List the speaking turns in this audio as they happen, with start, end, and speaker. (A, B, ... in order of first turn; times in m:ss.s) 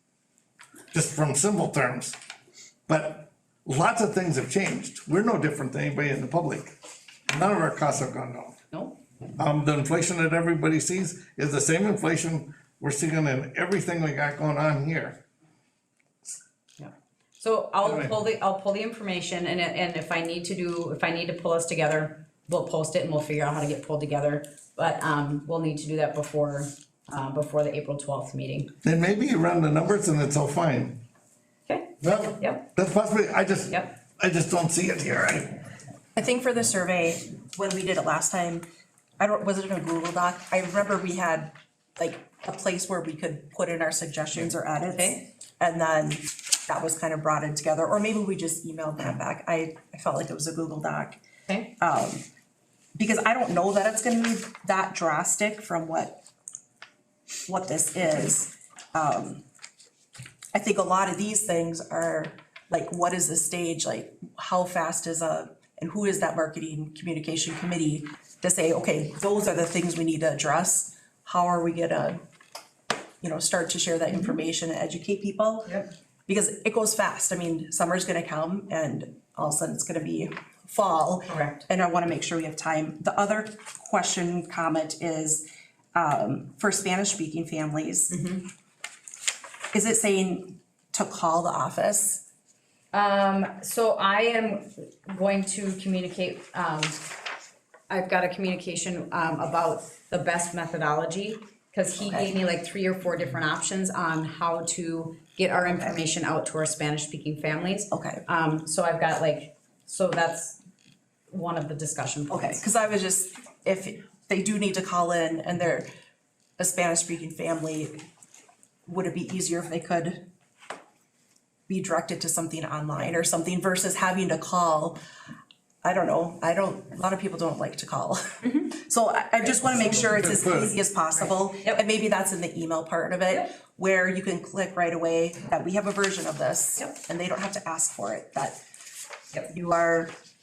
0:00.9-0:02.2 A
0:02.9-0:06.7 A
0:07.3-0:08.6 A
0:08.7-0:09.0 B
0:09.4-0:15.2 A
0:16.8-0:28.7 B
0:17.8-0:18.1 A
0:28.8-0:31.0 A
0:31.7-0:32.6 B
0:32.0-0:35.6 A
0:36.1-0:38.6 C
0:39.2-0:51.2 C
0:51.8-0:52.2 C
0:52.9-0:56.2 C
0:57.5-0:59.4 C
1:00.5-1:12.2 C
1:13.2-1:28.1 C
1:14.1-1:14.4 B
1:21.3-1:21.6 B
1:28.1-1:28.5 B
1:29.7-1:32.2 C
1:32.9-1:37.0 B
1:37.9-1:50.6 B
1:42.0-1:42.3 C
1:47.9-1:48.2 C
1:51.3-1:52.6 B
1:52.3-1:55.9 C
1:56.6-1:58.0 C
1:58.8-2:00.2 C
2:01.7-2:05.0 C
2:05.8-2:18.6 C
2:08.4-2:08.7 B
2:09.7-2:10.8 A
2:19.5-2:20.1 C